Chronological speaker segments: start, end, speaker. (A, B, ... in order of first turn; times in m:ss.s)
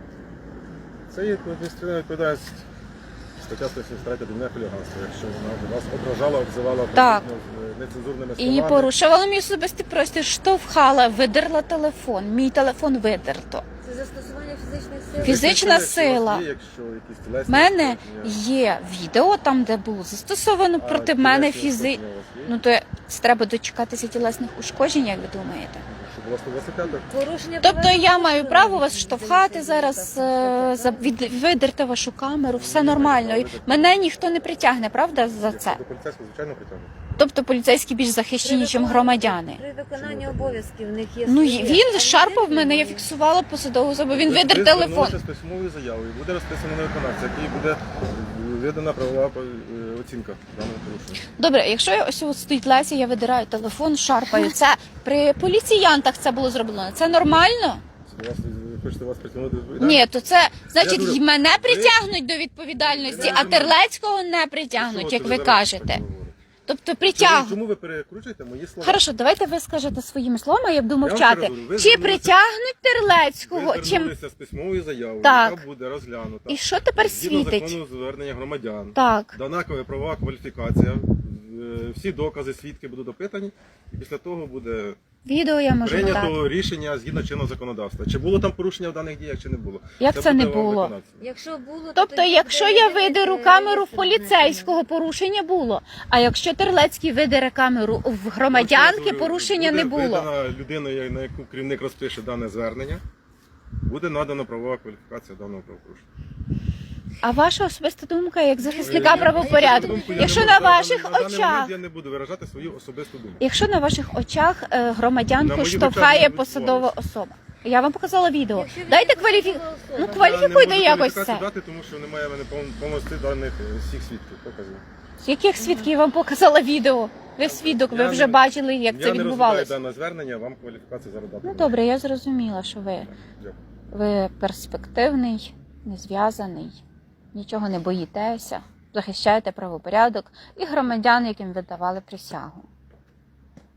0:01.1-0:02.6 A
0:03.4-0:08.9 A
0:06.9-0:07.2 B
0:08.4-0:13.6 B
0:13.8-0:15.4 C
0:15.1-0:18.4 A
0:15.2-0:16.4 B
0:17.5-0:25.8 B
0:20.8-0:22.5 A
0:25.9-0:27.1 A
0:27.0-0:31.1 C
0:27.6-0:35.8 B
0:32.5-0:34.6 A
0:35.3-0:36.9 A
0:37.2-0:39.6 B
0:38.4-0:43.1 C
0:40.0-0:40.6 A
0:41.2-0:45.2 B
0:44.1-0:51.2 A
0:51.3-0:57.8 B
0:57.0-0:57.4 A
0:58.1-1:00.1 A
0:59.8-1:06.0 B
1:00.7-1:02.0 A
1:02.8-1:03.8 A
1:03.2-1:03.5 C
1:04.8-1:06.4 A
1:06.7-1:07.6 B
1:07.0-1:09.0 A
1:08.8-1:14.1 B
1:11.0-1:12.4 A
1:13.4-1:25.0 A
1:15.2-1:15.6 B
1:16.5-1:17.8 B
1:19.0-1:19.3 B
1:25.2-1:26.4 B
1:25.8-1:31.2 A
1:30.0-1:30.9 B
1:31.2-1:34.8 C
1:32.0-1:40.3 B
1:38.5-1:43.0 A
1:43.8-1:46.1 A
1:47.2-1:51.7 B
1:48.6-1:50.7 C
1:48.8-1:53.4 A
1:53.4-2:01.5 B
1:55.4-1:56.9 A
1:58.5-2:00.2 C
2:00.0-2:04.8 A
2:05.2-2:09.8 B
2:05.6-2:05.9 C
2:07.4-2:11.8 A
2:11.4-2:13.1 B
2:13.1-2:13.6 A
2:13.9-2:22.7 B